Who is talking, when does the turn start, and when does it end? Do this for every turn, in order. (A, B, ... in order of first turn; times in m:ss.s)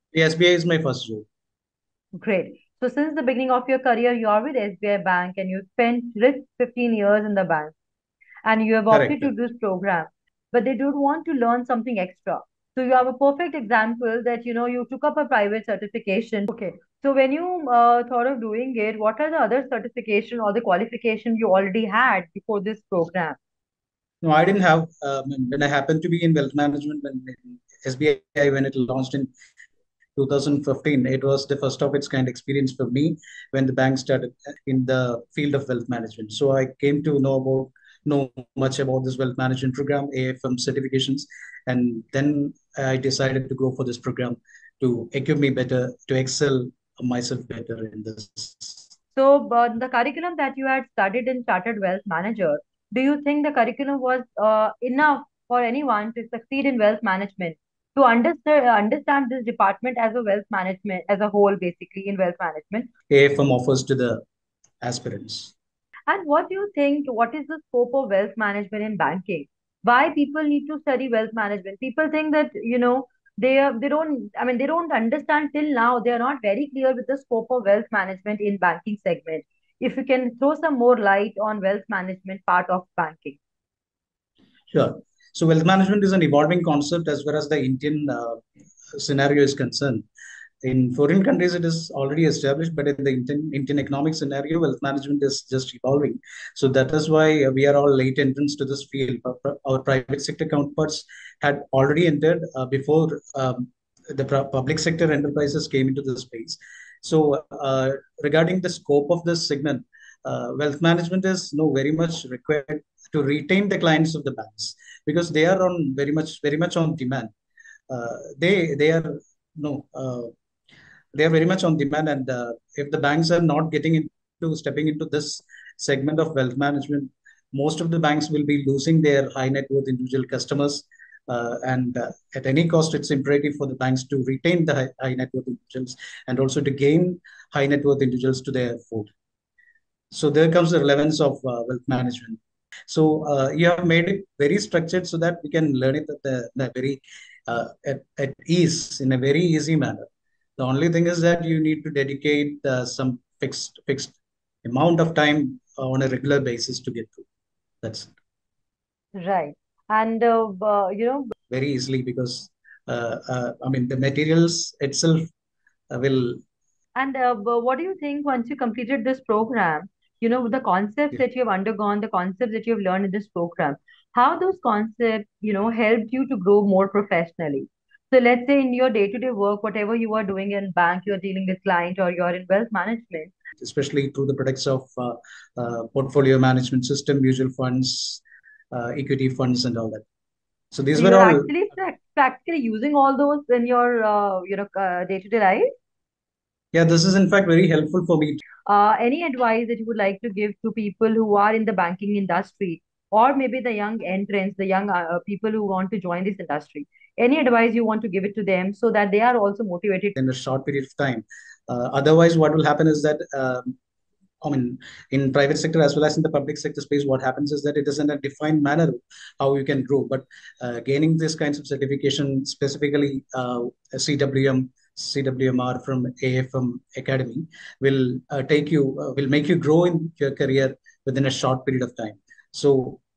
0:00.1-0:01.2 A
0:02.2-0:07.7 B
0:08.4-0:23.4 B
0:08.9-0:09.3 A
0:24.2-0:29.3 A
0:30.2-0:48.8 A
0:49.2-1:02.9 B
1:03.1-1:04.2 A
1:04.8-1:05.5 A
1:06.1-1:23.4 B
1:24.7-1:28.4 A
1:28.9-1:30.0 A
1:30.6-1:57.3 A
1:57.9-2:00.3 A
2:01.1-2:19.1 A
2:20.1-2:30.0 A
2:30.6-2:37.2 A
2:37.8-2:38.1 A
2:39.2-2:41.3 B
2:41.5-2:45.3 A
2:45.9-2:46.4 A
2:47.0-3:03.3 B
3:03.6-3:10.0 A
3:10.7-3:11.5 A
3:10.9-3:15.7 B
3:16.7-3:18.4 A
3:18.6-3:30.1 B
3:30.2-3:33.7 A
3:34.4-3:53.0 A